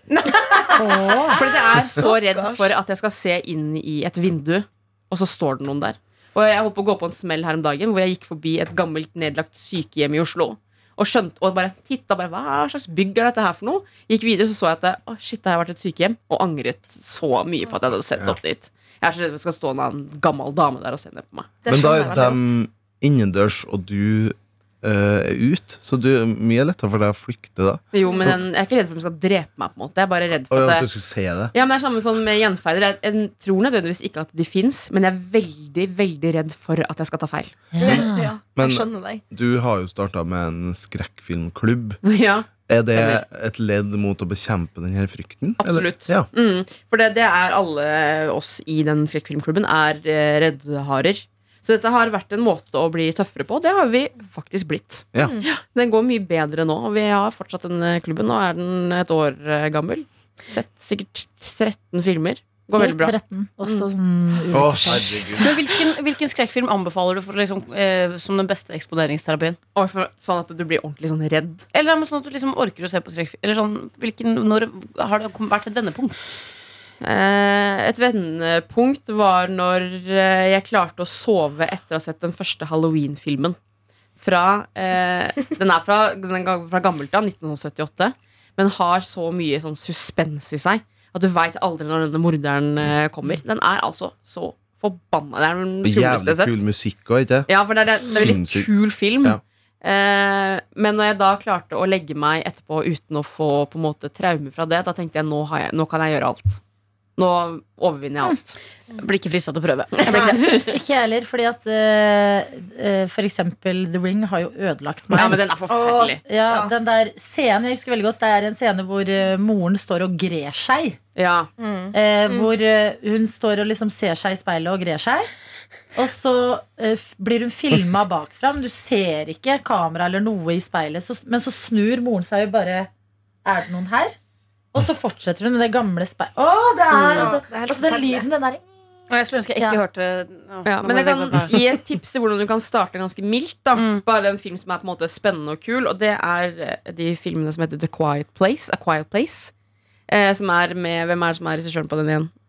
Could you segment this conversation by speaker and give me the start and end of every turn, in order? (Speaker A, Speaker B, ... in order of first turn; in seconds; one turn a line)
Speaker A: 0.1-0.5
Speaker B: 0.8-1.4
Speaker C: 1.3-21.5
Speaker D: 1.3-2.7
Speaker D: 21.6-22.5
Speaker E: 21.7-28.4
Speaker C: 27.9-30.9
Speaker D: 28.0-28.3
Speaker E: 30.5-31.5
Speaker C: 31.5-37.6
Speaker B: 37.7-38.3
Speaker D: 37.8-39.2
Speaker E: 37.8-42.0
Speaker C: 42.0-43.2
Speaker E: 42.7-46.3
Speaker C: 45.6-63.9
Speaker D: 55.2-55.5
Speaker B: 62.7-65.6
Speaker E: 64.5-65.5
Speaker A: 65.4-69.6
Speaker C: 69.7-71.7
Speaker A: 71.7-76.4
Speaker C: 77.0-83.6
Speaker C: 84.2-96.6
Speaker E: 95.8-98.7
Speaker C: 97.5-106.6
Speaker C: 107.2-108.6
Speaker A: 108.9-110.6
Speaker C: 110.0-110.7
Speaker B: 110.4-115.4
Speaker C: 115.1-116.2
Speaker D: 115.7-116.7
Speaker B: 116.2-121.0
Speaker C: 121.2-121.5
Speaker D: 121.6-122.5
Speaker B: 121.9-125.3
Speaker B: 125.9-132.9
Speaker B: 133.4-134.2
Speaker B: 134.7-138.7
Speaker A: 137.0-137.3
Speaker D: 137.2-138.3
Speaker A: 139.1-141.7
Speaker B: 139.6-139.8
Speaker C: 140.6-149.5
Speaker A: 143.7-144.0
Speaker C: 150.1-152.3